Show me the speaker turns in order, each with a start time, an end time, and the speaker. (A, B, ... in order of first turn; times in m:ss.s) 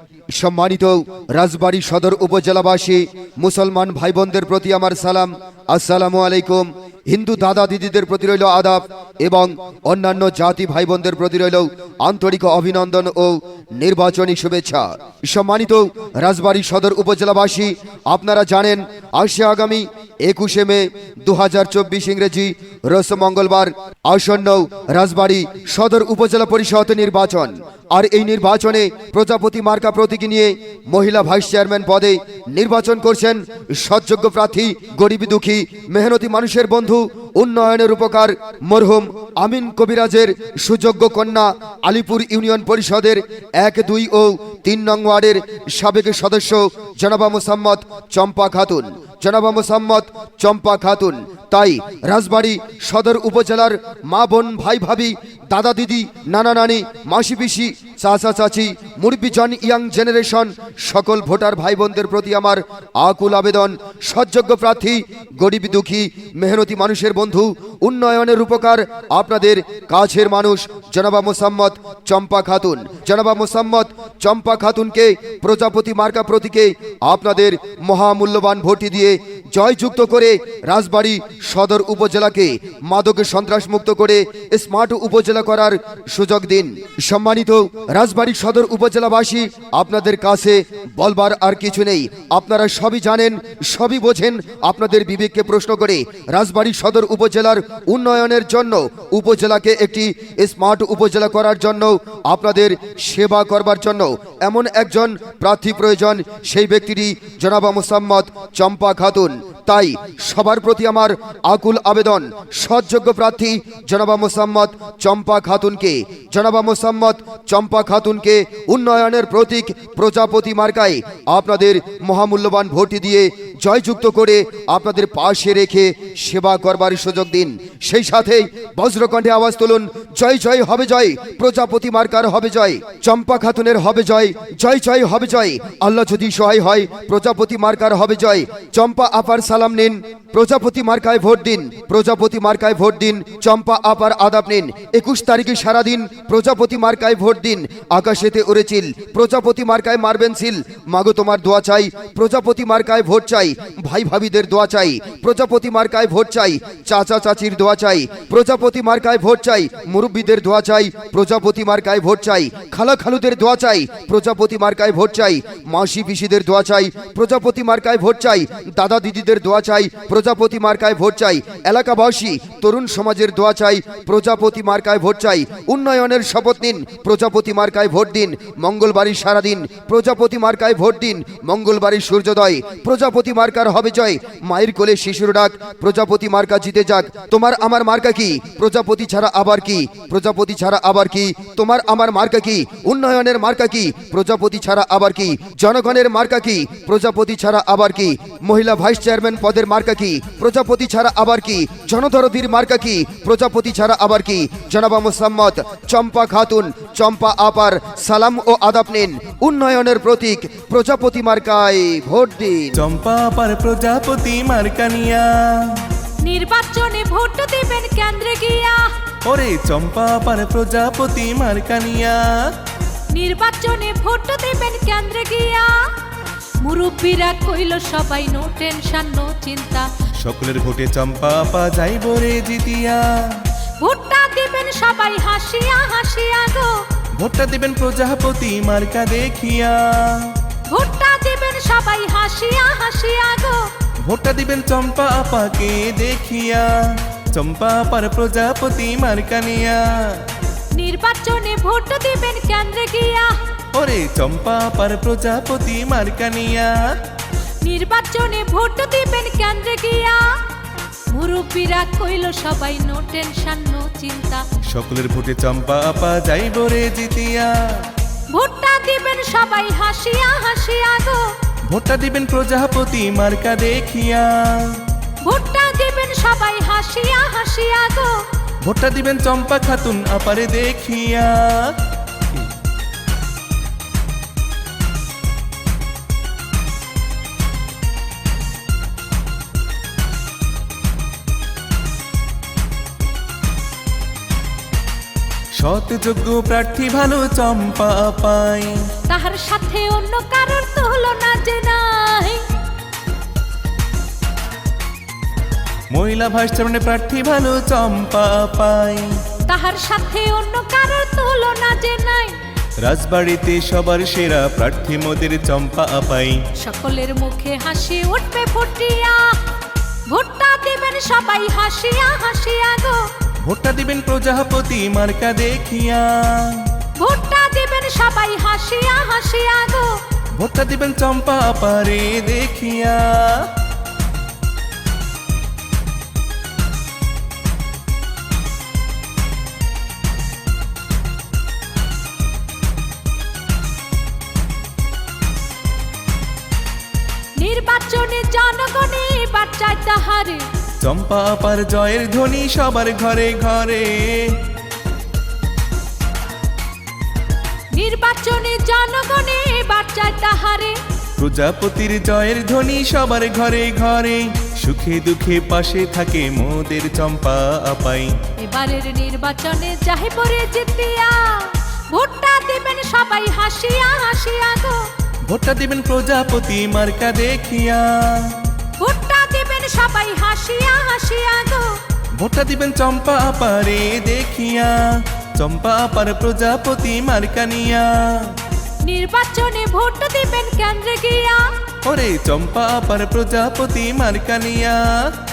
0:00.4-3:32.8 A
3:32.8-3:35.9 B
3:36.2-3:38.9 C
3:39.2-3:42.5 B
3:43.1-3:46.0 C
3:46.6-3:49.9 C
3:50.2-3:53.5 B
3:53.8-3:56.7 C
3:57.2-4:00.4 B
4:00.7-4:03.7 C
4:04.0-4:10.3 B
4:10.7-4:13.3 C
4:13.7-4:17.0 B
4:17.6-4:20.2 C
4:21.1-4:24.4 C
4:24.6-4:27.9 B
4:28.3-4:31.2 C
4:31.7-4:34.8 B
4:35.2-4:38.2 C
4:38.6-4:42.4 B
4:55.6-4:58.9 B
4:59.1-5:02.4 C
5:05.9-5:09.2 B
5:09.5-5:12.4 C
5:12.8-5:16.5 B
5:16.6-5:19.4 C
5:20.1-5:23.0 C
5:23.4-5:26.8 B
5:27.0-5:30.0 C
5:30.3-5:33.5 B
5:47.4-5:50.4 C
5:50.8-5:54.4 B
5:57.7-6:00.8 C
6:01.2-6:08.2 B
6:08.4-6:14.8 C
6:15.3-6:18.5 B
6:18.8-6:21.7 C
6:22.1-6:28.4 B
6:28.8-6:31.4 C
6:31.8-6:35.1 B